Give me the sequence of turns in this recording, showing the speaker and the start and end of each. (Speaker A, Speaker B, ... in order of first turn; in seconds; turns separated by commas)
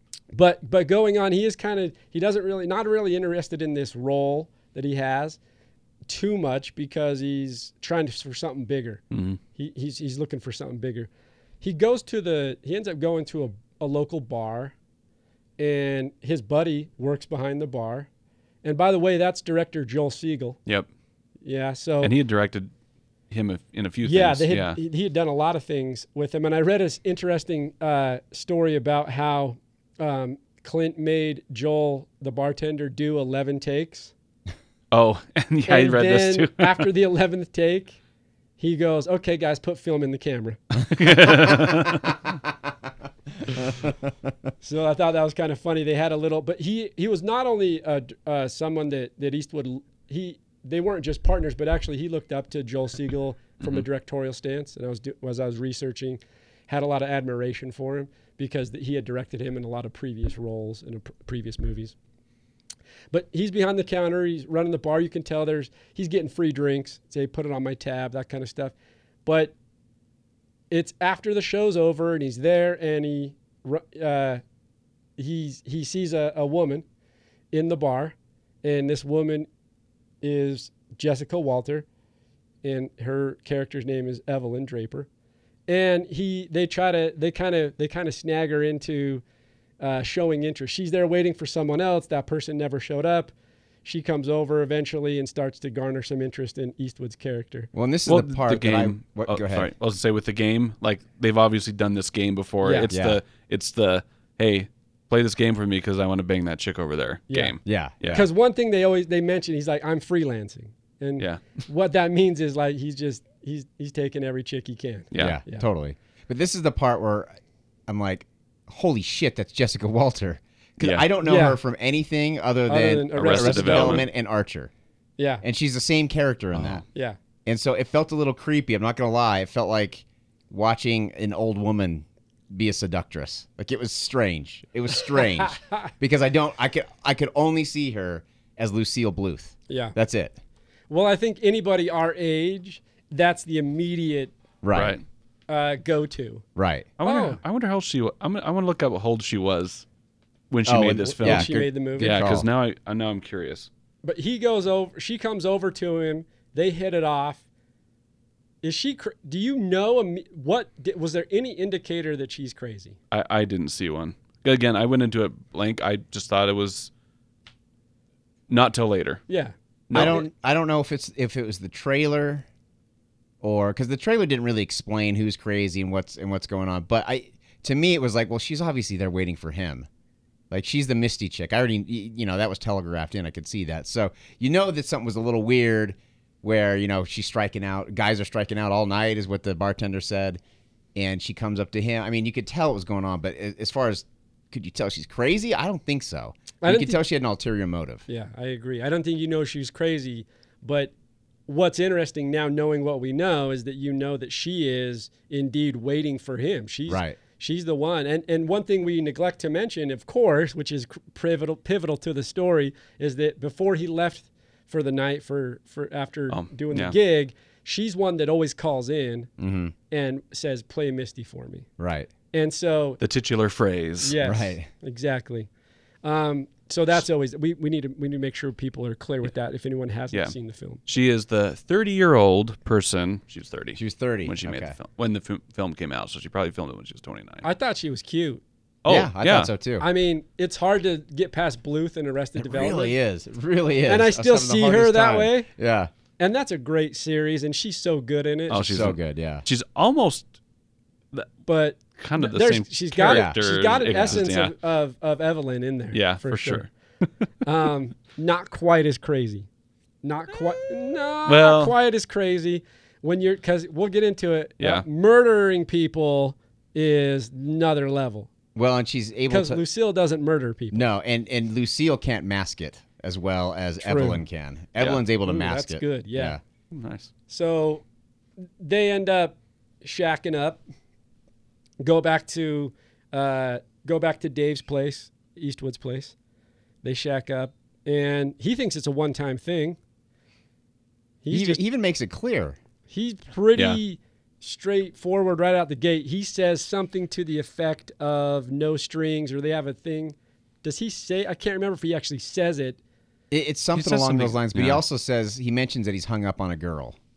Speaker A: 0.3-5.4, Speaker A: 6.1-9.0, Speaker B: 9.1-9.4, Speaker A: 9.5-11.1, Speaker A: 11.6-14.7, Speaker A: 15.6-18.1, Speaker A: 18.6-20.6, Speaker A: 21.4-22.1, Speaker B: 22.0-22.7, Speaker B: 23.3-24.8, Speaker A: 24.0-34.1, Speaker B: 34.9-36.8, Speaker A: 35.6-38.0, Speaker A: 38.6-40.6, Speaker B: 40.9-42.1, Speaker A: 44.6-61.9, Speaker A: 63.1-68.7, Speaker A: 69.2-69.5, Speaker A: 70.7-74.4, Speaker A: 75.2-76.8, Speaker A: 77.5-79.5, Speaker A: 80.2-81.8, Speaker A: 82.6-85.1, Speaker A: 85.7-89.2, Speaker A: 89.8-93.3, Speaker A: 93.8-97.7, Speaker C: 97.7-99.7, Speaker B: 98.1-108.2, Speaker A: 102.6-102.9, Speaker C: 102.9-103.2, Speaker A: 107.3-107.5, Speaker C: 107.6-108.3, Speaker A: 108.1-115.6, Speaker B: 111.2-111.6, Speaker B: 115.1-115.4, Speaker C: 115.2-117.3, Speaker C: 117.9-124.7, Speaker B: 120.8-121.0, Speaker A: 121.2-121.6, Speaker A: 122.7-124.1, Speaker B: 123.2-124.0, Speaker A: 125.2-125.4, Speaker C: 125.4-126.8, Speaker B: 126.5-126.8, Speaker C: 127.5-140.4, Speaker A: 135.4-135.9, Speaker A: 139.7-139.9, Speaker A: 140.9-144.3, Speaker C: 144.6-145.0, Speaker B: 144.7-145.0, Speaker A: 145.5-146.4, Speaker C: 146.6-146.9, Speaker B: 147.0-149.8, Speaker A: 147.0-147.4, Speaker B: 150.5-153.7, Speaker C: 150.7-152.5, Speaker A: 151.1-152.2, Speaker A: 154.0-157.4, Speaker A: 158.6-163.0, Speaker B: 163.1-166.9, Speaker B: 168.5-169.2, Speaker A: 169.3-170.3, Speaker B: 169.9-170.2, Speaker C: 169.9-172.4, Speaker C: 173.4-179.9, Speaker C: 180.5-190.4, Speaker C: 190.9-198.0, Speaker A: 196.6-197.0, Speaker A: 198.1-200.9, Speaker A: 201.5-219.3, Speaker C: 206.9-207.2, Speaker B: 216.3-216.9, Speaker C: 219.4-219.7, Speaker A: 219.9-221.7, Speaker C: 221.8-222.1, Speaker A: 222.3-223.0, Speaker B: 223.0-224.2, Speaker A: 224.0-225.5, Speaker C: 224.2-224.7, Speaker A: 226.0-230.8, Speaker B: 230.9-237.4, Speaker C: 233.7-234.7, Speaker A: 237.4-238.4, Speaker B: 238.8-239.5, Speaker C: 238.9-239.8, Speaker A: 239.8-242.9, Speaker C: 242.4-245.9, Speaker A: 243.9-245.5, Speaker A: 246.2-248.7, Speaker B: 248.5-250.3, Speaker C: 248.6-249.4, Speaker A: 251.4-256.6, Speaker B: 252.0-254.5, Speaker C: 253.1-253.4, Speaker B: 255.9-257.1, Speaker A: 257.4-259.5, Speaker A: 260.0-268.3, Speaker B: 261.2-261.7, Speaker B: 264.6-264.8, Speaker C: 268.5-269.6, Speaker A: 269.3-270.9, Speaker C: 270.7-276.4, Speaker A: 273.8-274.2, Speaker A: 275.2-276.4, Speaker B: 276.7-277.1, Speaker A: 277.3-277.8, Speaker A: 278.6-280.6, Speaker A: 281.8-286.1, Speaker A: 286.8-289.8, Speaker A: 291.2-291.6, Speaker C: 291.3-292.6, Speaker A: 292.9-302.8, Speaker C: 303.3-307.0, Speaker B: 303.7-304.8